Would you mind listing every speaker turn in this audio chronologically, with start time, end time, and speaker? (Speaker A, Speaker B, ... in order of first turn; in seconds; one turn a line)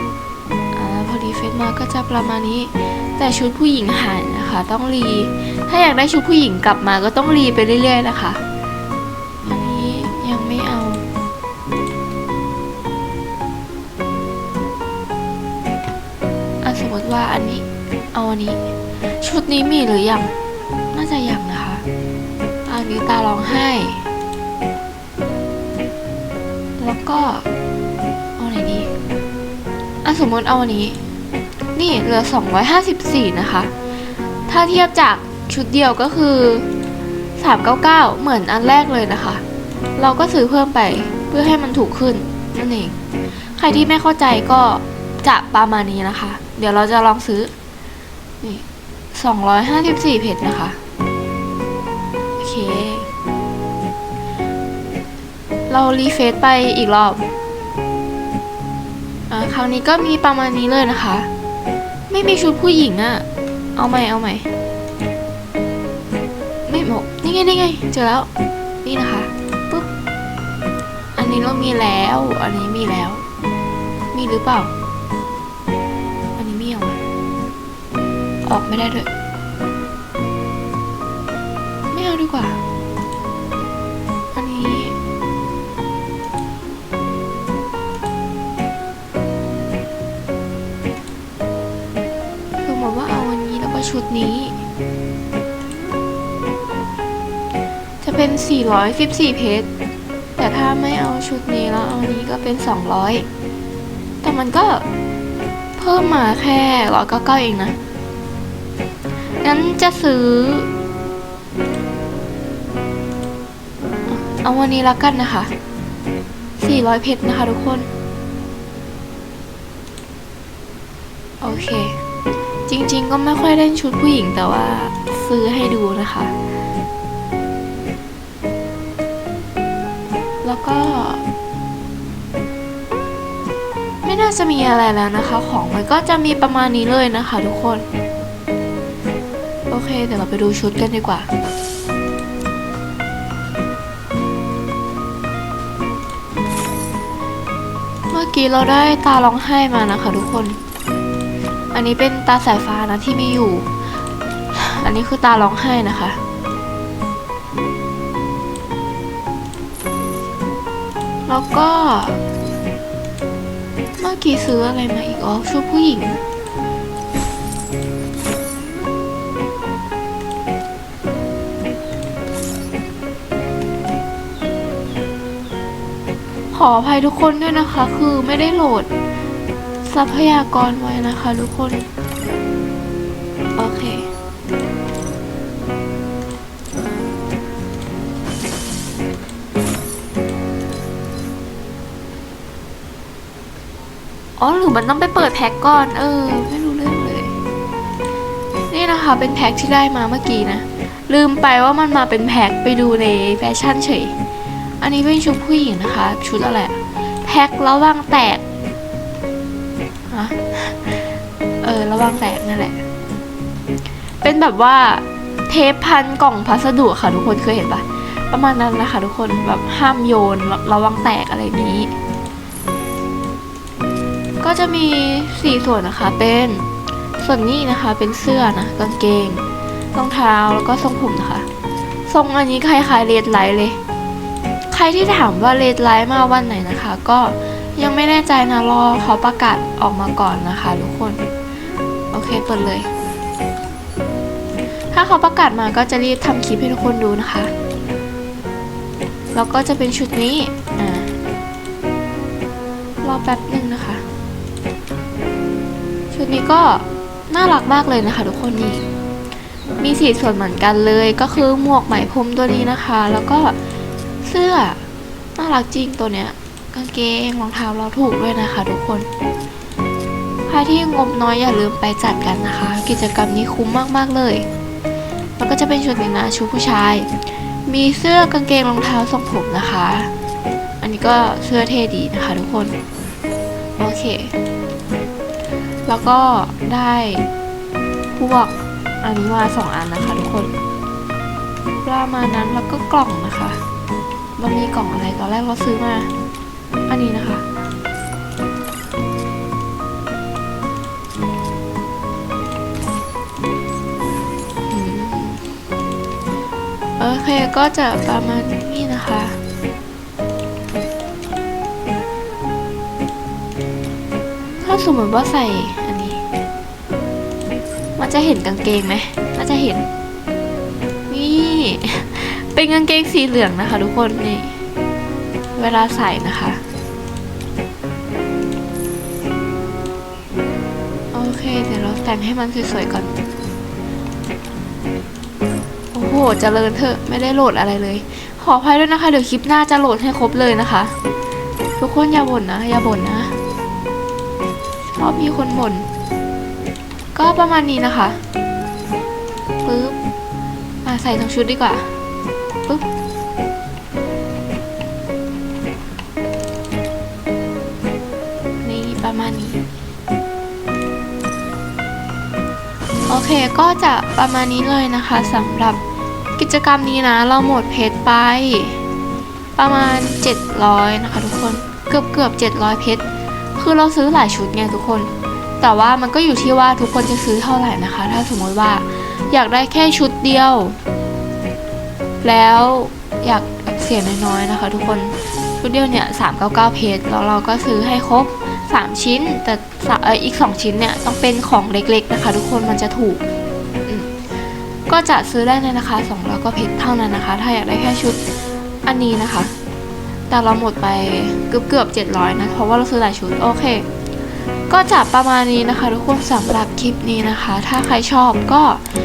Speaker A: 0.7-8.4
Speaker A: 9.4-11.0
Speaker A: 16.6-18.6
Speaker A: 19.2-20.3
Speaker A: 20.9-21.8
Speaker A: 22.7-24.0
Speaker A: 26.8-27.4
Speaker A: 28.4-28.9
Speaker A: 30.0-31.0
Speaker A: 31.7-33.7
Speaker A: 34.5-36.7
Speaker A: 37.4-39.4
Speaker A: 40.0-42.9
Speaker A: 43.5-47.5
Speaker A: 48.4-50.8
Speaker A: 52.4-53.1
Speaker A: 55.7-57.2
Speaker A: 59.3-61.3
Speaker A: 62.1-63.2
Speaker A: 63.8-64.5
Speaker A: 66.7-68.3
Speaker A: 68.8-69.9
Speaker A: 71.2-73.2
Speaker A: 74.1-74.7
Speaker A: 76.3-77.0
Speaker A: 78.5-79.1
Speaker A: 81.9-82.6
Speaker A: 84.3-85.0
Speaker A: 92.6-94.5
Speaker A: 98.0-99.7
Speaker A: 100.4-103.3
Speaker A: 104.2-104.8
Speaker A: 105.8-107.8
Speaker A: 109.4-110.7
Speaker A: 114.1-115.5
Speaker A: 116.6-117.9
Speaker A: 121.4-122.0
Speaker A: 122.7-126.3
Speaker A: 130.4-131.2
Speaker A: 134.0-137.8
Speaker A: 139.7-141.3
Speaker A: 148.1-150.6
Speaker A: 151.7-153.7
Speaker A: 154.5-156.2
Speaker A: 161.3-162.2
Speaker A: 164.0-166.2
Speaker A: 176.5-178.9
Speaker A: 179.8-181.9
Speaker A: 183.6-184.1
Speaker A: 194.4-197.3
Speaker A: 198.7-204.1
Speaker A: 204.8-208.4
Speaker A: 210.1-212.8
Speaker A: 214.2-221.9
Speaker A: 224.4-226.6
Speaker A: 227.2-231.5
Speaker A: 232.1-233.8
Speaker A: 234.7-241.2
Speaker A: 242.1-242.9
Speaker A: 244.9-247.5
Speaker A: 249.3-251.1
Speaker A: 253.0-254.0
Speaker A: 256.1-258.8
Speaker A: 259.8-263.6
Speaker A: 264.2-264.8
Speaker A: 265.4-269.1
Speaker A: 270.5-274.4
Speaker A: 275.4-277.1
Speaker A: 277.6-280.1
Speaker A: 280.8-282.8
Speaker A: 283.8-284.3
Speaker A: 285.9-287.3
Speaker A: 288.1-290.5
Speaker A: 291.8-293.6
Speaker A: 294.4-296.1
Speaker A: 296.9-297.4
Speaker A: 304.7-305.5
Speaker A: 307.0-309.4
Speaker A: 314.6-316.2
Speaker A: 318.0-319.9
Speaker A: 321.1-324.6
Speaker A: 325.6-326.6
Speaker A: 331.1-333.1
Speaker A: 335.9-340.9
Speaker A: 341.8-343.3
Speaker A: 344.9-345.9
Speaker A: 347.1-348.2
Speaker A: 349.6-350.0
Speaker A: 350.8-351.9
Speaker A: 358.6-359.6
Speaker A: 363.1-365.8
Speaker A: 366.4-368.8
Speaker A: 369.6-380.8
Speaker A: 382.2-393.2
Speaker A: 393.9-394.1
Speaker A: 394.9-398.2
Speaker A: 398.8-399.5
Speaker A: 400.3-403.9
Speaker A: 404.7-408.8